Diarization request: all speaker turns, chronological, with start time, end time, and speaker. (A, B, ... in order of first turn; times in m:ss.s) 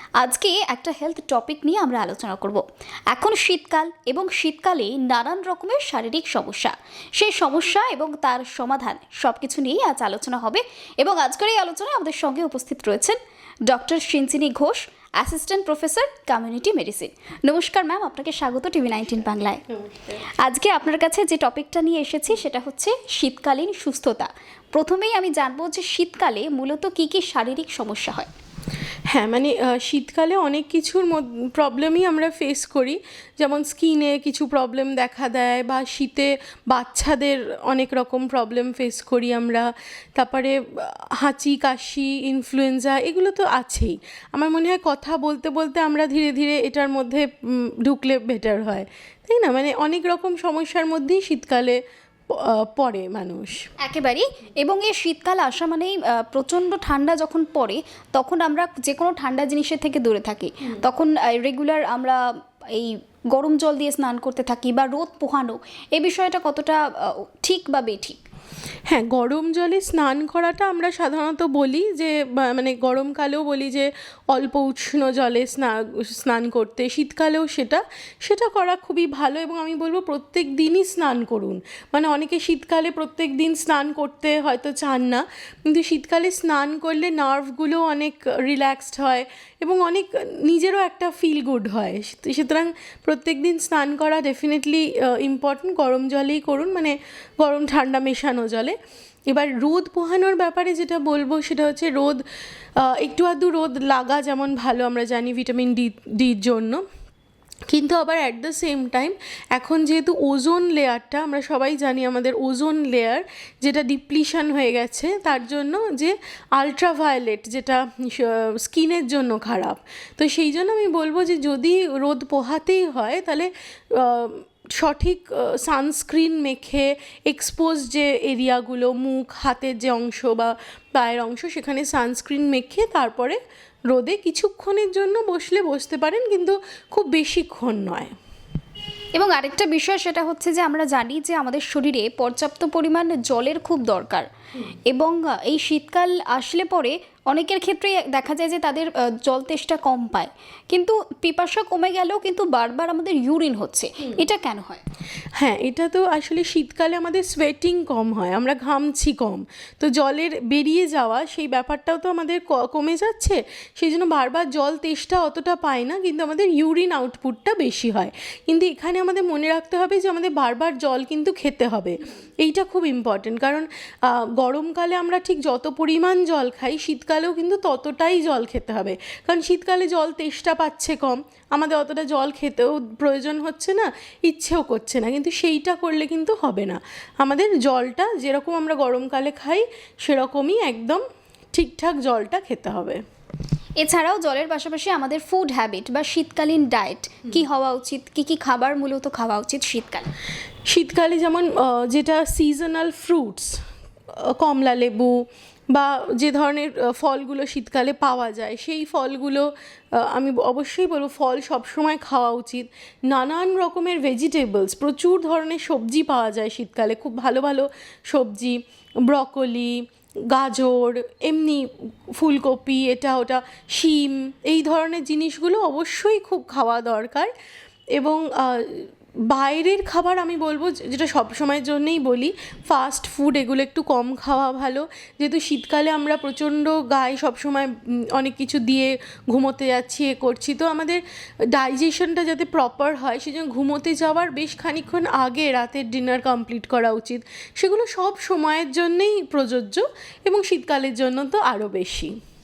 0:00.2-0:19.6 A
0:19.7-0:20.2 B
0:20.4-0:28.3 A
0:29.1-0:51.8 B
0:52.3-0:53.6 B
0:53.8-1:02.2 A
1:02.7-1:08.2 A
1:08.9-1:38.8 B
1:39.3-1:42.2 B
1:42.8-1:46.8 B
1:47.7-2:18.1 B
2:19.1-2:24.3 A
2:24.9-2:34.8 A
2:35.4-3:11.0 B
3:11.5-3:13.0 B
3:13.8-3:20.1 A
3:20.7-3:23.6 B
3:24.3-3:47.3 B
3:48.0-4:01.0 B
4:01.5-4:12.1 B